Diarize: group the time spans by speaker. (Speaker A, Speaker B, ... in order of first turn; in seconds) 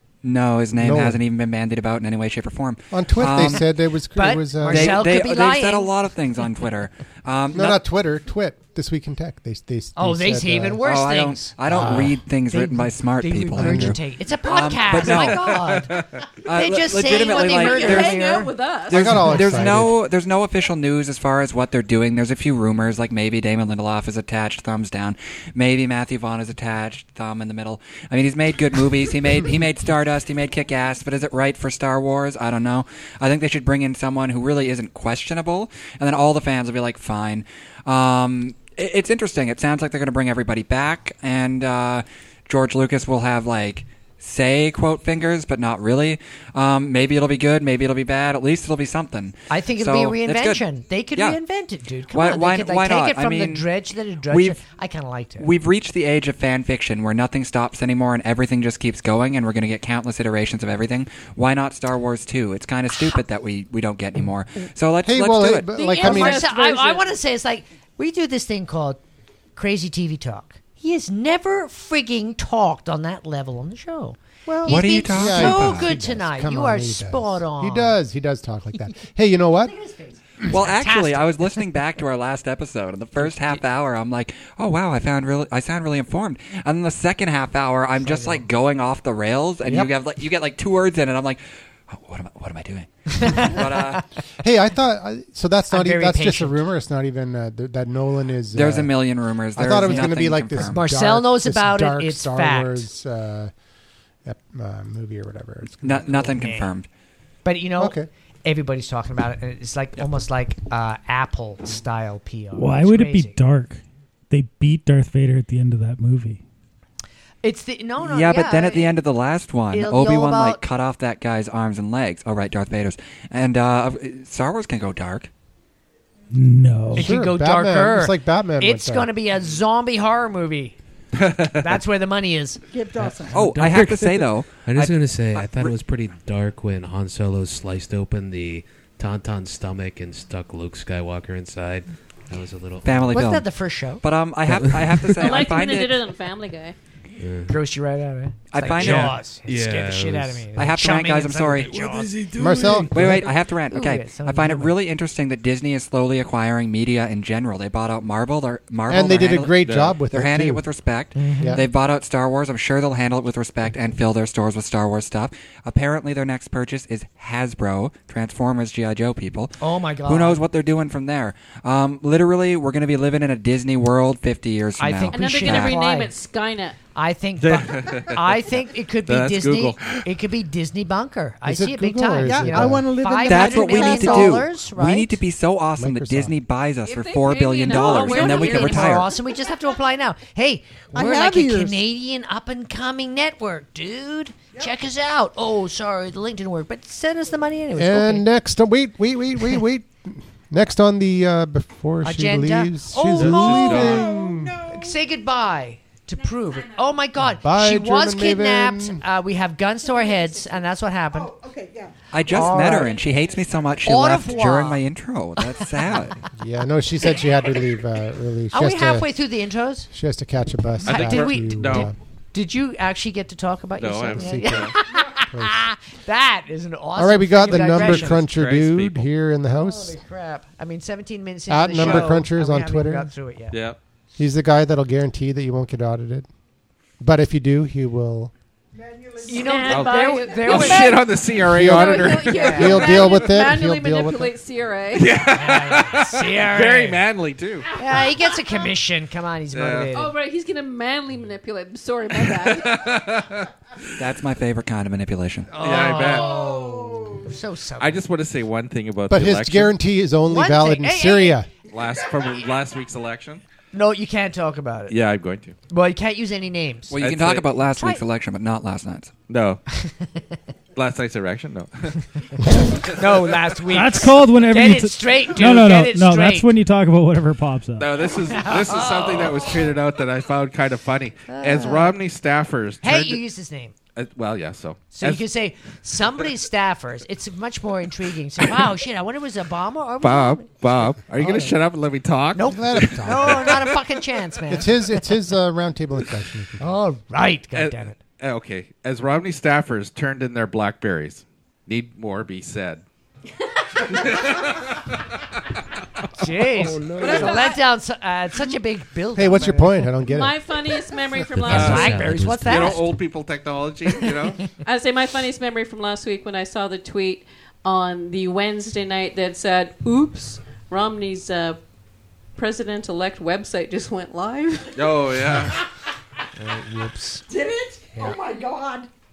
Speaker A: 0.2-3.6, 4.6-7.8, 10.8-15.6, 16.4-50.6, 51.1-51.4, 52.1-53.7, 54.3-54.6, 55.4-65.7, 74.6-75.9, 80.5-94.0, 98.5-100.8, 105.8-106.9, 118.0-125.3, 133.3-135.0, 142.8-143.5, 144.0-146.0, 148.5-149.2, 150.5-151.8, 152.8-175.8, 183.2-189.1, 212.1-216.2, 254.0-255.5, 266.9-269.2
Speaker B: 0.8-1.2, 2.9-5.1, 7.5-10.8, 11.7-12.2, 13.6-14.0, 18.9-20.0, 65.0-66.5, 74.5-79.7, 94.4-98.9, 99.5-103.5, 104.2-106.3, 107.8-108.1, 126.9-129.1, 152.4-153.3, 158.9-160.6, 161.4-161.7, 181.4-182.9, 185.8-186.3, 197.8-204.6, 207.2-209.0, 216.3-219.1, 219.9-221.9, 224.1-224.8, 225.3-225.6, 227.0-230.0, 231.5-233.1, 234.2-236.3, 237.0-238.3, 241.4-244.3, 259.1-261.5, 291.2-291.5, 292.4-293.6, 294.5-296.6, 306.5-307.4, 309.1-310.4
Speaker C: 4.1-5.9, 10.0-18.5, 49.5-55.5, 65.9-69.0, 69.5-78.0, 79.6-81.5, 83.3-83.6, 88.0-88.4, 93.1-94.0, 95.7-96.6, 99.8-102.9, 106.2-106.7, 107.4-113.4, 117.4-119.0, 119.7-120.6, 126.9-130.8, 131.5-132.6, 143.1-144.0, 147.5-154.7, 161.1-161.6, 169.6-170.4, 174.8-176.1, 176.9-185.2, 187.7-198.2, 202.0-204.1, 204.7-211.3, 212.3-213.0, 213.8-214.8, 218.5-219.9, 220.8-228.2, 229.5-233.6, 239.2-241.1, 242.2-243.0, 245.2-247.1, 247.7-250.2, 255.5-258.0, 260.3-261.4, 263.7-265.0, 265.7-267.0, 267.8-268.0, 269.7-270.3, 272.4-276.5, 278.1-279.7, 281.3-282.0, 282.8-283.8, 284.9-290.5, 291.2-291.5, 292.3-295.1, 296.6-298.0, 306.1-309.9, 311.4-312.9, 326.4-327.2
Speaker D: 15.1-16.1, 131.2-131.6, 159.6-160.0, 177.4-178.4, 179.1-180.1, 203.2-204.0, 220.8-221.9, 223.8-224.8, 227.4-229.1, 231.8-232.1, 233.5-233.8, 239.7-243.0, 244.9-247.7, 249.5-249.9, 252.1-254.0, 255.6-256.7, 257.8-259.8, 261.6-263.4, 264.9-265.6, 267.0-267.5, 269.3-269.6, 270.8-272.0, 277.8-283.2, 283.9-285.2, 290.0-293.8, 297.5-302.8, 303.9-305.0, 311.5-314.5, 324.8-325.6
Speaker E: 17.1-19.3, 65.8-67.1, 145.2-146.8, 175.1-176.8, 186.9-189.1, 239.3-245.1, 249.9-252.8, 307.0-307.6, 310.1-312.1, 314.6-321.6, 322.4-324.9
Speaker F: 112.5-116.4, 126.3-127.1, 273.7-278.0
Speaker G: 132.7-133.6, 182.2-184.4, 190.9-191.8, 203.2-204.9, 211.1-211.9, 238.8-239.7, 256.0-257.1, 327.3-328.9
Speaker H: 134.6-143.1, 144.5-145.1, 147.2-147.5, 148.8-150.5, 151.6-153.1, 311.4-312.8